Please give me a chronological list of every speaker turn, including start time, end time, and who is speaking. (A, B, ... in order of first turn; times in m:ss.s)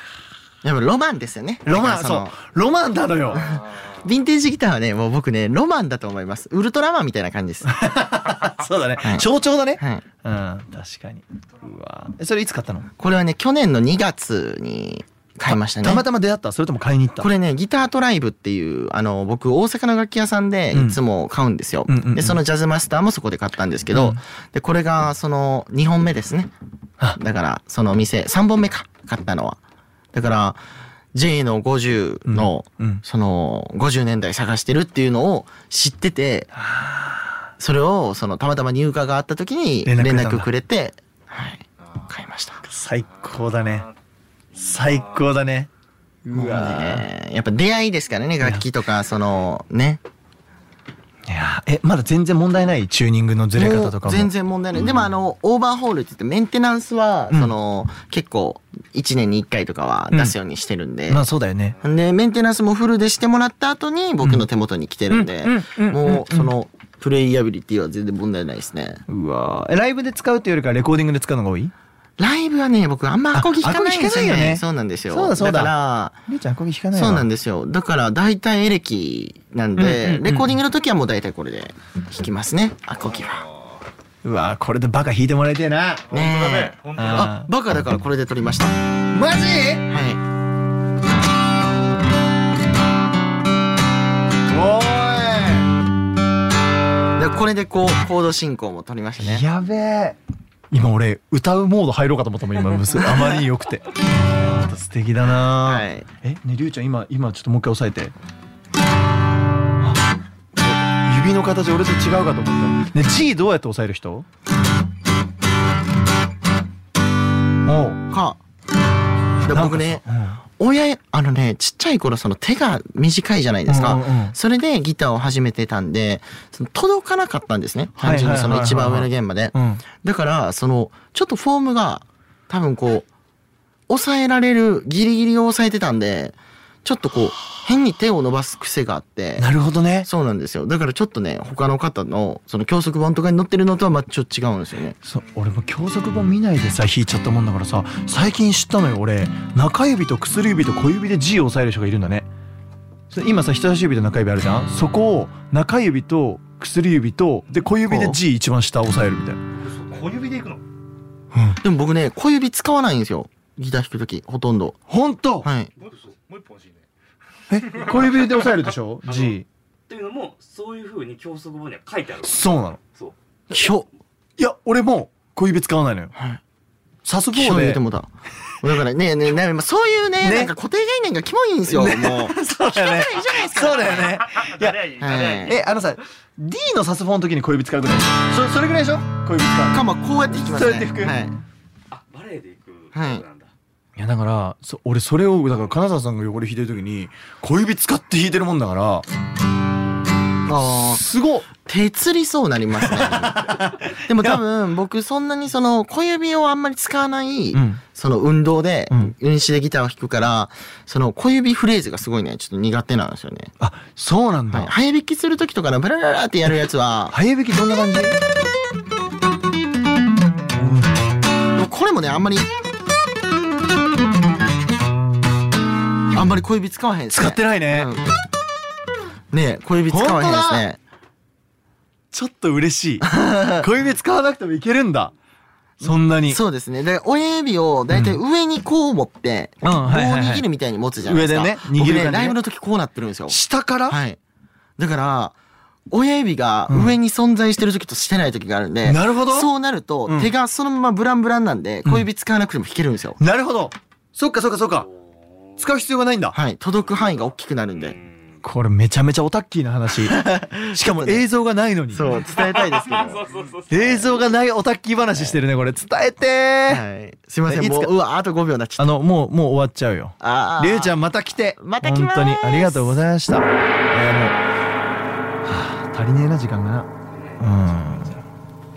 0:00.6-0:02.4 A
0:01.6-0:03.5 B
0:03.3-0:07.7 A
0:07.6-0:12.9 B
0:09.0-0:10.0 A
0:13.0-0:16.0 A
0:15.5-0:17.3 B
0:17.2-0:26.5 A
0:20.7-0:21.0 B
0:21.9-0:22.4 B
0:23.9-0:24.2 B
0:27.1-0:29.6 A
0:30.1-0:30.6 A
0:31.1-0:36.5 A
0:32.3-0:33.0 B
0:36.5-0:37.4 B
0:37.6-0:42.6 A
0:39.8-0:40.5 B
0:42.6-0:43.9 B
0:44.5-0:45.7 B
0:46.2-0:47.1 B
0:46.3-0:50.0 A
0:51.3-0:54.3 B
0:53.5-1:01.2 A
1:01.1-1:01.8 B
1:01.8-1:09.0 A
1:05.1-1:06.5 B
1:09.1-1:11.7 B
1:12.2-1:16.2 A
1:13.3-1:15.8 B
1:16.3-1:17.3 B
1:16.9-1:23.4 A
1:19.8-1:20.5 B
1:24.2-1:26.0 B
1:26.1-1:27.2 C
1:26.1-1:28.8 A
1:26.9-1:27.5 B
1:29.1-1:29.8 B
1:29.9-1:30.2 A
1:34.5-1:35.7 B
1:37.2-1:39.4 A
1:39.2-1:40.2 B
1:40.7-1:48.1 B
1:45.6-1:46.1 A
1:50.6-1:54.2 B
1:57.6-1:58.0 B
1:58.1-1:58.4 A
1:59.4-2:00.0 A
1:59.4-2:00.4 B
2:00.6-2:13.1 A
2:03.6-2:04.3 B
2:08.0-2:09.8 B
2:13.9-2:19.5 A
2:19.4-2:20.1 B
2:20.0-2:25.0 A
2:25.0-2:32.3 B
2:33.1-2:39.4 B
2:37.9-2:38.2 A
2:39.9-2:40.6 C
2:41.6-2:44.8 A
2:44.9-2:45.5 B
2:45.4-2:45.7 A
2:45.9-2:46.8 C
2:47.5-2:49.4 B
2:49.1-2:49.3 D
2:49.9-2:52.4 D
2:52.2-2:52.8 B
2:53.5-2:53.9 A
2:54.4-2:56.1 B
2:56.1-2:56.4 A
2:57.0-2:57.8 B
2:57.3-2:58.1 A
2:58.6-3:04.2 A
3:00.2-3:00.5 B
3:01.7-3:09.9 B
3:05.0-3:05.6 A
3:09.7-3:11.4 A
3:10.4-3:11.2 B
3:11.9-3:13.5 D
3:12.9-3:13.2 A
3:14.0-3:19.0 B
3:20.4-3:21.0 A
3:20.8-3:21.5 B
3:21.6-3:33.5 A
3:22.8-3:24.4 B
3:27.5-3:27.8 B
3:33.6-3:34.7 B
3:34.5-3:37.2 A
3:37.1-3:38.2 B
3:40.5-3:40.9 B
3:41.5-3:42.5 A
3:46.1-3:48.1 A
3:47.1-3:47.9 B
3:49.3-3:50.8 A
3:49.9-3:50.7 B
3:52.1-3:55.1 B
3:53.0-3:53.6 A
3:55.8-3:56.4 B
3:56.2-4:04.2 A
3:57.9-3:58.2 B
3:59.6-4:00.4 B
4:01.0-4:02.4 B
4:03.3-4:04.0 B
4:04.8-4:05.4 A
4:05.9-4:13.2 A
4:06.7-4:07.0 B
4:08.8-4:09.5 B
4:13.2-4:14.9 B
4:14.9-4:15.5 D
4:15.6-4:16.4 B
4:16.3-4:18.0 A
4:18.4-4:22.1 B
4:20.0-4:21.2 A
4:21.9-4:23.2 A
4:22.4-4:24.1 D
4:23.7-4:26.8 B
4:26.7-4:28.9 A
4:27.5-4:27.9 B
4:28.8-4:34.4 B
4:30.2-4:31.0 A
4:31.6-4:33.0 A
4:35.4-4:36.9 B
4:37.1-4:37.5 D
4:37.4-4:38.2 B